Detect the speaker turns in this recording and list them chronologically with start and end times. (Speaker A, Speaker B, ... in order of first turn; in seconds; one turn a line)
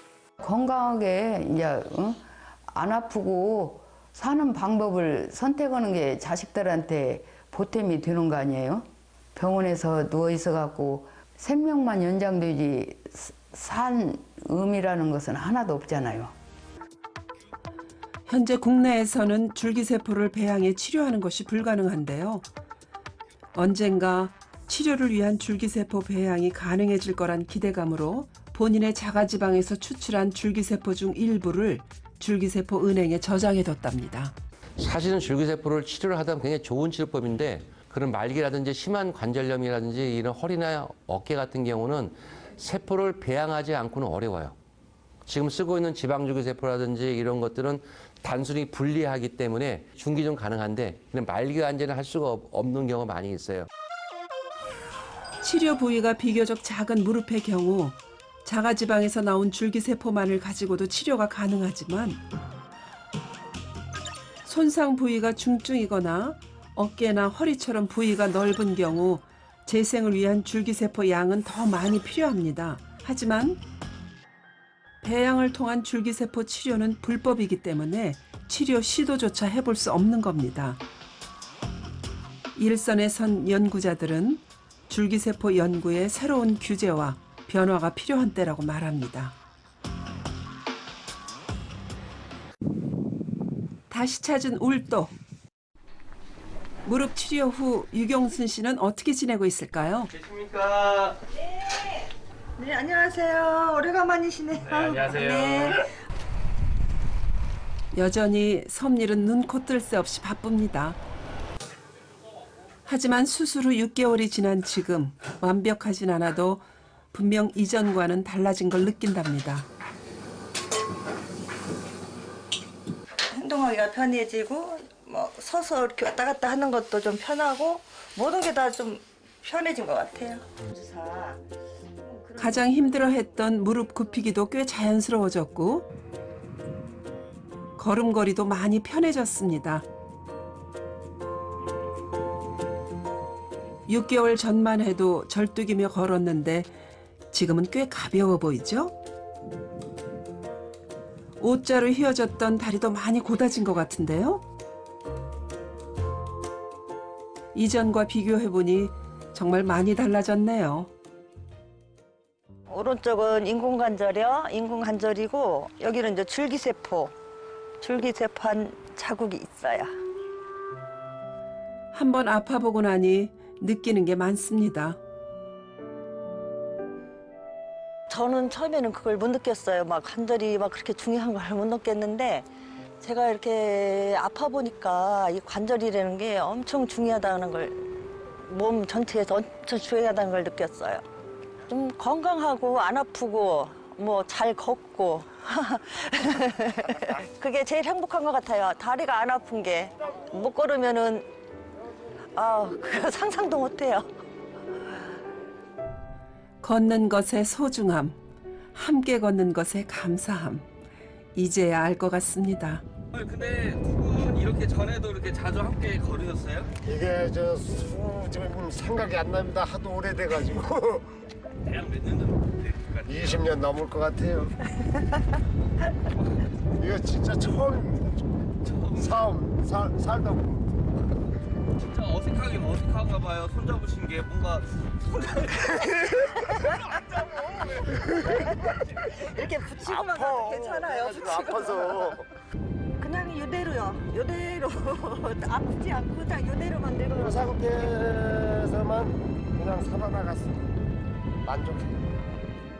Speaker A: 0.4-16.3
Speaker B: 18.3-22.4
Speaker B: 23.5-34.3
Speaker C: 34.8-44.5
Speaker C: 45.2-53.7
Speaker B: 55.4-62.2
Speaker B: 64.4-73.6
Speaker B: 75.0-80.8
Speaker B: 82.5-89.3
Speaker B: 93.9-95.1
Speaker B: 96.8-100.1
Speaker C: 100.2-101.1
Speaker D: 101.3-105.9
Speaker B: 107.9-111.0
Speaker B: 112.8-119.7
Speaker D: 123.3-131.4
Speaker D: 132.0-132.8
Speaker B: 132.4-135.8
Speaker B: 137.8-139.8
Speaker B: 143.9-146.7
Speaker B: 147.3-148.9
Speaker B: 151.4-154.4
Speaker B: 157.5-160.9
Speaker D: 162.7-167.1
Speaker D: 167.8-169.9
Speaker B: 171.9-175.0
Speaker D: 178.1-182.5
Speaker D: 183.0-187.8
Speaker D: 188.4-191.0
Speaker D: 191.7-201.2
Speaker D: 202.3-204.1
Speaker B: 206.6-208.2
Speaker B: 208.7-210.7
Speaker B: 211.3-212.8
Speaker E: 213.4-216.5
Speaker F: 216.8-221.1
Speaker F: 223.0-224.5
Speaker F: 226.8-228.2
Speaker F: 228.9-230.8
Speaker E: 232.0-234.6
Speaker D: 235.5-237.2
Speaker D: 237.8-242.1
Speaker F: 239.8-242.2
Speaker D: 243.0-247.9
Speaker F: 247.1-250.7
Speaker F: 251.4-252.0